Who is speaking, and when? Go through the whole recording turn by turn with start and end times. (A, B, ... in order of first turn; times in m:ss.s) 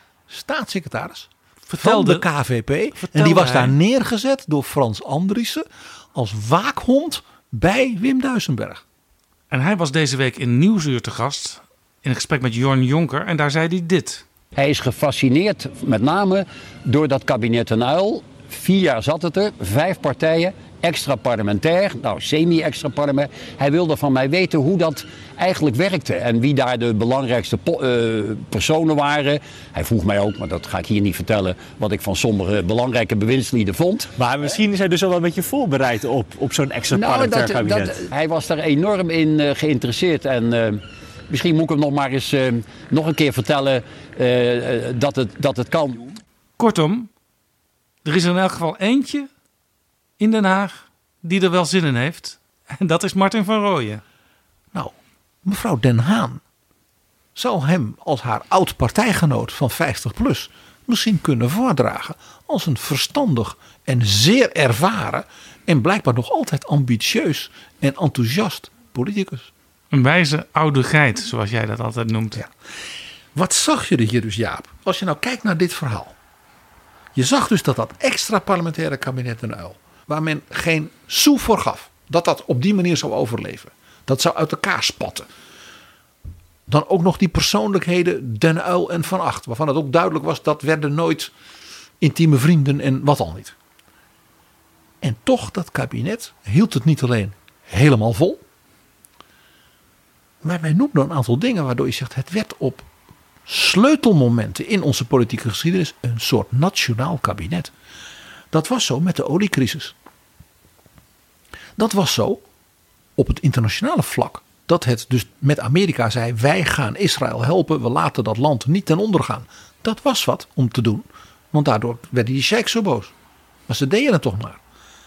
0:00.3-0:08.8 A
0:01.7-0:02.2 B
0:03.0-0:03.8 B
0:09.5-0:14.2 B
0:14.5-0:34.1 C
0:34.1-0:38.0 D
0:36.9-0:46.1 C
0:46.6-0:47.1 B
0:48.0-0:49.3 B
0:50.2-0:54.0 B
0:54.7-0:56.4 A
0:57.3-1:09.5 A
1:09.9-1:12.4 B
1:13.3-1:16.1 A
1:17.1-1:25.3 A
1:26.7-1:31.3 A
1:32.0-1:33.5 A
1:35.0-1:38.4 A
1:40.4-1:42.9 A
1:43.4-1:47.7 A
1:48.5-1:49.9 A
1:51.8-1:52.4 A
1:53.2-2:03.1 A
2:03.7-2:04.6 A